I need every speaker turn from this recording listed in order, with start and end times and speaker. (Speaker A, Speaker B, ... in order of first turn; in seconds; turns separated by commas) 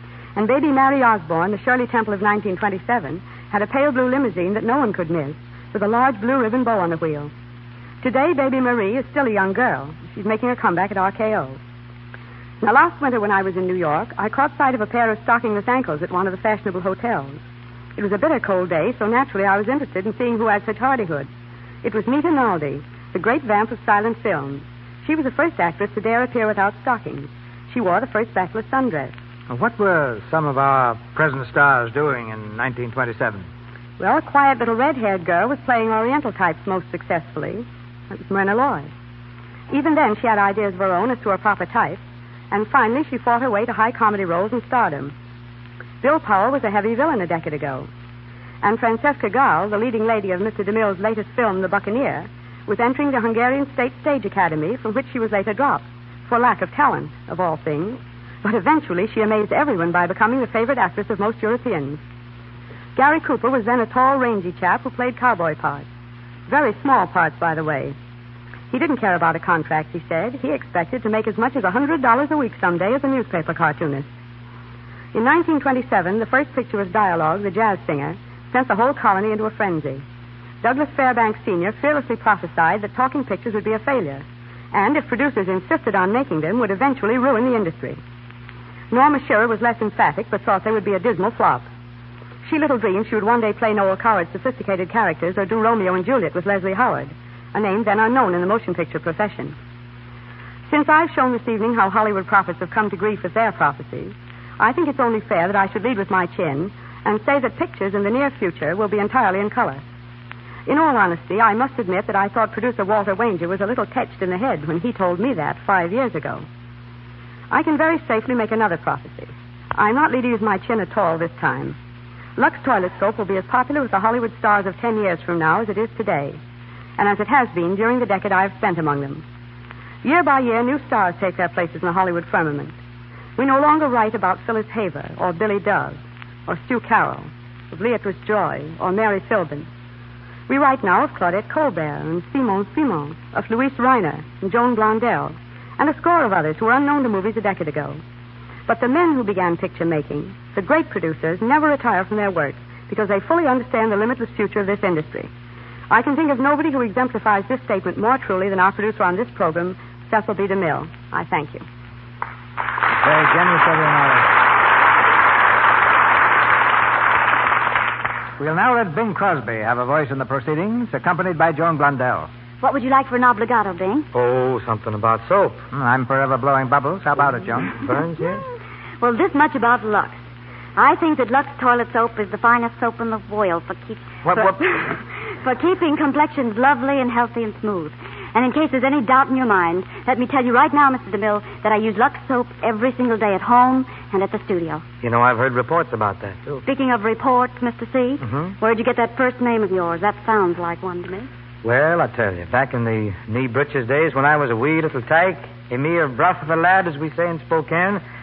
Speaker A: 0.4-7.3, Speaker A: 8.0-11.6, Speaker A: 12.6-17.4, Speaker A: 18.0-21.3, Speaker A: 21.8-29.1, Speaker B: 29.5-33.5, Speaker A: 34.0-38.9, Speaker A: 39.7-45.1, Speaker A: 46.0-47.9, Speaker A: 48.6-62.0, Speaker A: 63.0-65.9, Speaker A: 66.5-68.0, Speaker A: 68.7-74.1, Speaker A: 75.1-80.0, Speaker A: 80.6-88.0, Speaker A: 88.9-91.7, Speaker A: 92.4-99.5, Speaker A: 100.7-109.8, Speaker A: 110.7-116.5, Speaker A: 117.5-121.8, Speaker A: 122.4-126.4, Speaker A: 127.0-129.2, Speaker A: 130.0-132.8, Speaker A: 133.4-139.7, Speaker A: 140.5-148.0, Speaker A: 148.7-155.3, Speaker A: 155.9-161.6, Speaker B: 163.0-164.3, Speaker B: 168.4-172.3, Speaker C: 172.6-174.1, Speaker D: 174.1-175.6, Speaker B: 175.7-177.8, Speaker D: 177.8-178.4, Speaker C: 179.0-194.8, Speaker D: 184.2-184.6, Speaker D: 195.0-196.6, Speaker C: 196.7-201.3, Speaker D: 198.2-198.6, Speaker D: 201.6-208.0